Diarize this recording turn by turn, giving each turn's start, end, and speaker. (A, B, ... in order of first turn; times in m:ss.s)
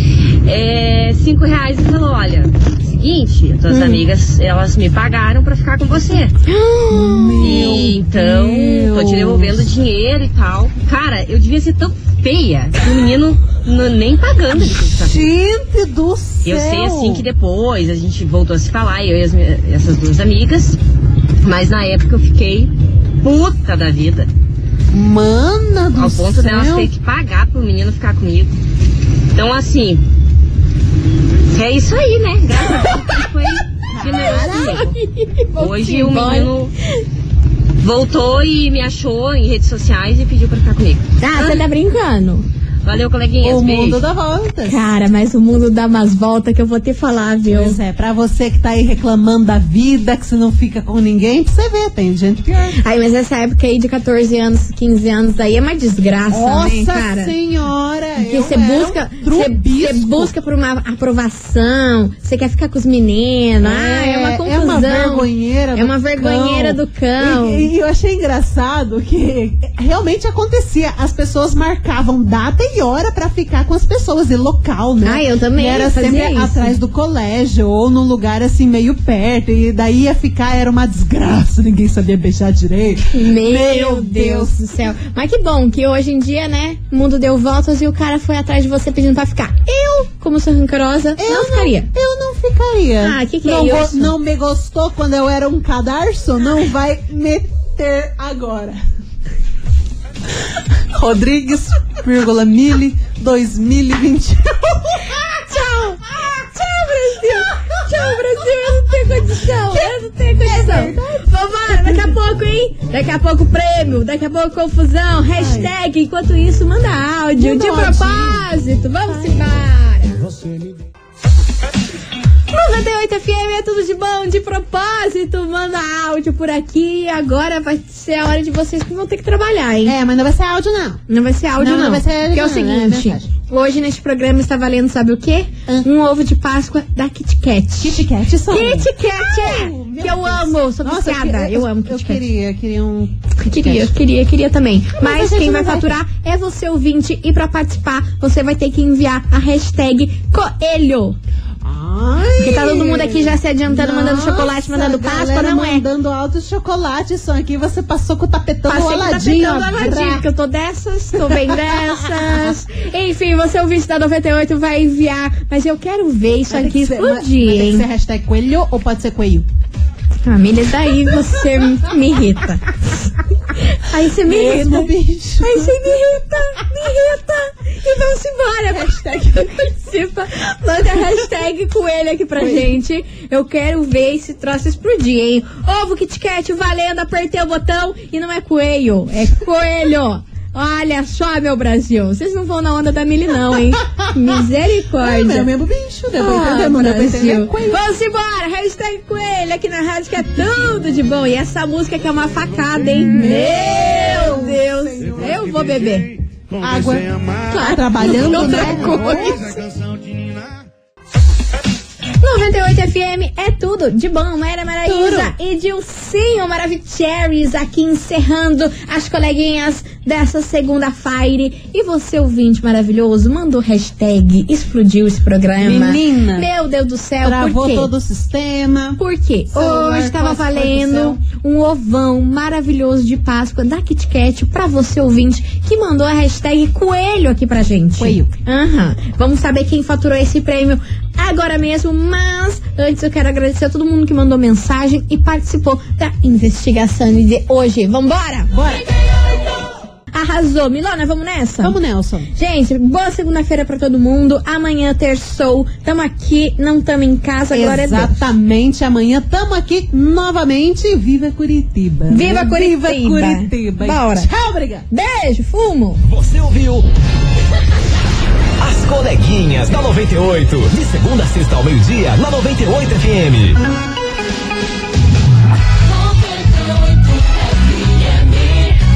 0:00.4-0:06.4 A
0:03.7-0:04.1 B
0:06.5-0:07.7 B
0:06.9-0:09.7 C
0:07.4-0:15.3 A
0:14.9-0:17.2 C
0:16.4-0:20.8 A
0:21.4-0:24.3 A
0:24.9-0:26.9 C
0:26.0-0:28.5 A
0:29.3-0:30.0 A
0:31.5-0:35.0 A
0:33.9-0:34.8 C
0:34.2-0:36.5 B
0:35.6-0:36.8 A
0:37.8-0:41.6 A
0:41.2-0:42.4 B
0:42.8-0:44.0 A
0:43.4-0:44.8 C
0:44.7-0:47.8 B
0:47.5-0:52.8 C
0:52.8-0:57.3 B
0:56.3-1:00.3 C
0:58.3-1:07.7 B
1:03.6-1:24.6 C
1:15.0-1:16.8 B
1:23.1-1:31.9 B
1:31.2-1:38.8 C
1:33.0-1:34.2 B
1:40.9-1:45.4 C
1:45.5-2:00.2 B
1:49.7-1:52.2 C
1:55.3-1:55.7 C
1:57.4-1:58.5 C
1:59.1-1:59.4 C
2:02.5-2:10.0 B
2:09.8-2:11.0 C
2:11.1-2:22.2 B
2:11.6-2:13.3 C
2:17.8-2:23.9 C
2:23.4-2:31.2 B
2:25.0-2:25.9 C
2:31.6-2:40.2 C
2:32.4-2:35.9 B
2:38.7-2:47.9 B
2:41.2-2:42.5 C
2:46.5-2:49.5 C
2:50.3-2:53.1 B
2:53.7-3:15.5 B
2:54.2-2:55.8 C
2:58.7-2:59.6 C
3:02.4-3:02.7 C
3:15.0-3:17.8 C
3:16.2-3:26.2 B
3:23.0-3:25.5 C
3:26.6-3:29.4 C
3:27.4-3:29.6 B
3:32.2-3:47.9 B
3:34.8-3:35.3 C
3:45.6-3:46.5 C
3:47.2-3:49.0 C
3:49.0-4:08.5 B
3:49.5-3:51.2 C
3:58.0-3:58.3 C
4:08.5-4:08.9 C
4:10.1-4:11.8 B
4:11.6-4:12.3 C
4:12.4-4:18.2 B
4:17.5-4:24.9 C
4:22.1-4:24.3 B
4:24.9-4:26.0 B
4:26.0-4:26.9 D
4:28.6-4:33.6 D
4:36.2-4:37.3 A